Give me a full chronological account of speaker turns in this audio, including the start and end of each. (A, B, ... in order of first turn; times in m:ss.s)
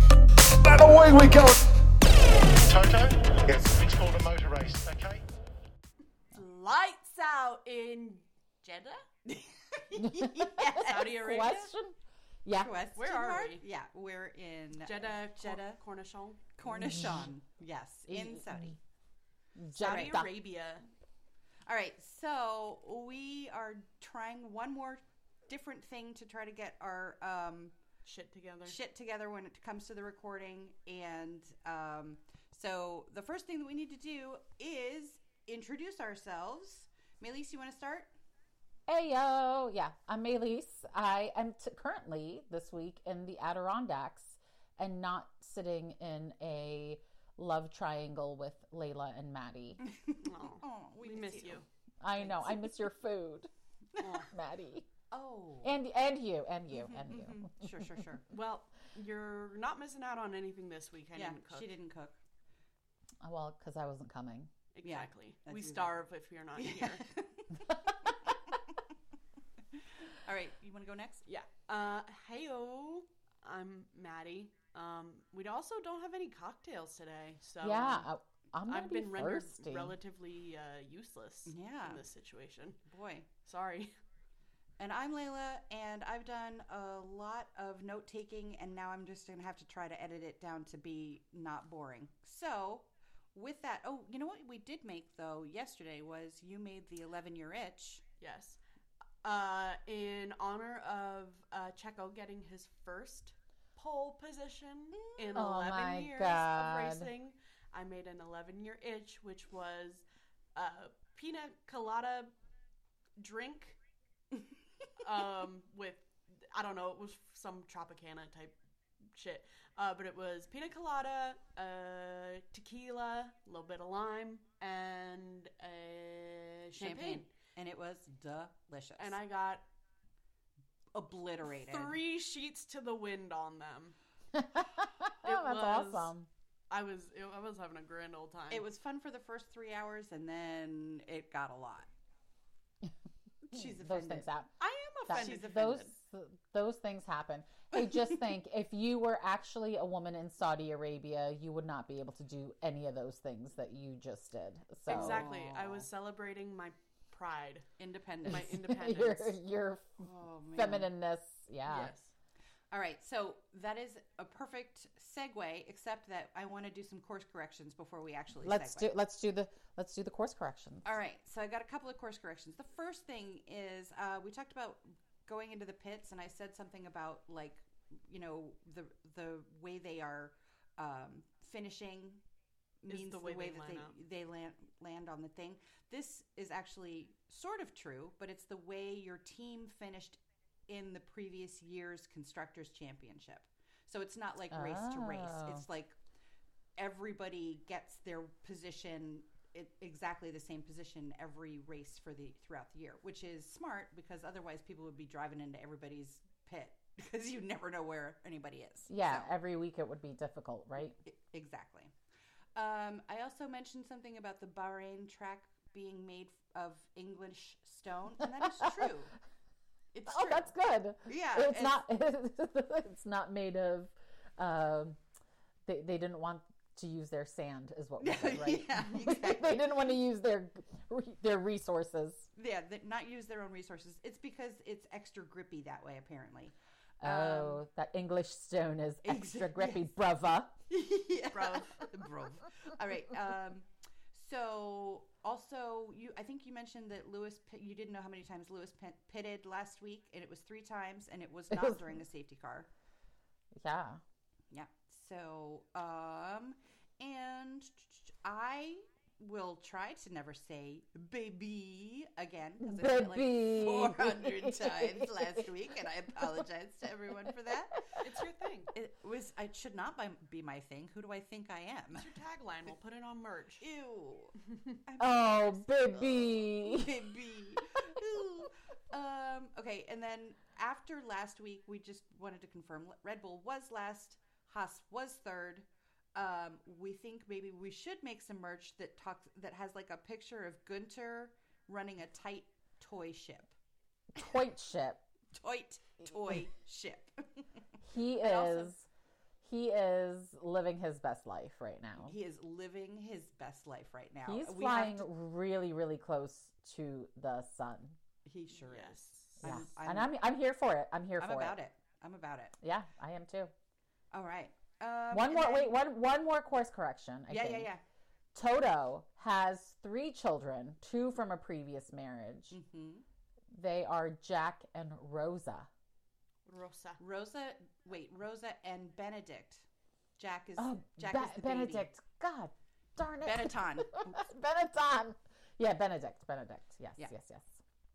0:00.7-0:01.6 A
0:02.5-0:05.2 A
0:06.3-0:08.3 B
0:08.6-0:11.7 C
0:09.9-0:12.7 D
0:10.8-0:11.7 B
0:12.6-0:15.8 C
0:12.9-0:13.6 B
0:14.7-0:16.4 B
0:16.6-0:18.8 C
0:16.6-0:17.3 D
0:18.1-0:18.7 D
0:19.6-0:20.3 D
0:19.8-0:20.9 B
0:19.8-0:20.3 C
0:21.6-0:27.7 C
0:28.0-0:28.8 B
0:28.6-0:38.1 C
0:38.9-0:49.8 D
0:49.8-0:51.6 C
0:50.2-0:51.6 B
0:52.0-0:53.5 D
0:52.2-0:52.7 C
0:54.0-0:54.3 B
0:54.3-0:54.9 D
0:55.1-0:55.7 C
0:55.6-0:57.9 D
0:56.8-0:58.2 C
0:58.3-1:01.7 B
1:01.1-1:02.2 C
1:03.2-1:04.5 D
1:04.7-1:07.0 B
1:04.8-1:06.0 C
1:06.6-1:08.1 C
1:10.0-1:11.2 C
1:11.2-1:18.1 B
1:17.6-1:20.0 D
1:18.7-1:22.8 B
1:21.4-1:22.0 C
1:22.9-1:23.3 C
1:23.4-1:23.9 B
1:24.8-1:38.0 C
1:38.2-1:38.6 B
1:39.2-1:50.0 B
1:45.0-1:45.5 C
1:45.3-1:47.1 D
1:50.5-1:52.3 B
1:53.2-1:53.8 B
1:55.0-1:58.6 B
1:59.1-2:07.3 B
2:06.8-2:09.2 C
2:09.0-2:09.6 B
2:10.9-2:12.0 C
2:11.5-2:14.0 B
2:14.3-2:16.3 D
2:15.2-2:16.1 B
2:16.7-2:18.7 B
2:18.5-2:21.9 C
2:23.5-2:25.9 C
2:23.5-2:24.5 D
2:25.1-2:35.3 D
2:25.2-2:25.6 B
2:34.9-2:35.9 C
2:34.9-2:37.7 B
2:37.8-2:38.6 C
2:38.2-2:40.0 D
2:38.3-2:39.3 B
2:40.0-2:40.9 C
2:40.5-2:41.9 D
2:41.6-2:42.1 B
2:42.7-2:48.9 C
2:48.4-2:50.9 D
2:50.8-3:02.2 C
3:02.8-3:15.9 C
3:02.9-3:04.0 B
3:14.5-3:15.6 D
3:16.8-3:29.3 C
3:28.9-3:31.0 D
3:31.0-3:31.9 C
3:32.6-3:39.1 C
3:38.4-3:38.7 D
3:39.9-3:40.5 C
3:40.0-3:45.0 D
3:41.0-3:41.8 C
3:45.6-3:52.3 D
3:48.0-3:49.8 C
3:52.4-3:57.6 C
3:57.0-4:00.6 D
3:59.0-3:59.9 C
4:00.7-4:12.7 C
4:01.3-4:01.8 B
4:11.5-4:12.0 D
4:13.6-4:14.0 D
4:14.5-4:28.0 C
4:22.6-4:25.7 D
4:27.2-4:27.9 D
4:28.0-4:28.7 B
4:28.7-4:32.1 C
4:31.9-4:33.6 B
4:33.6-4:34.4 C
4:34.9-4:53.5 C
4:35.0-4:37.0 D
4:54.1-4:55.0 D
4:55.3-4:57.6 C
4:57.8-4:58.8 D
4:58.2-4:58.7 C
4:59.4-5:02.2 D
5:02.0-5:05.1 C
5:04.2-5:08.0 D
5:08.2-5:10.1 C
5:08.6-5:09.4 B
5:09.4-5:11.5 D
5:11.2-5:12.6 C
5:12.6-5:13.5 D
5:14.1-5:15.8 C
5:15.1-5:17.7 D
5:17.3-5:17.8 C
5:18.3-5:22.5 D
5:22.5-5:23.0 C
5:23.5-5:25.7 D
5:26.4-5:27.0 B
5:27.0-5:29.6 C
5:30.2-5:31.9 C
5:30.6-5:37.6 D
5:33.2-5:34.3 C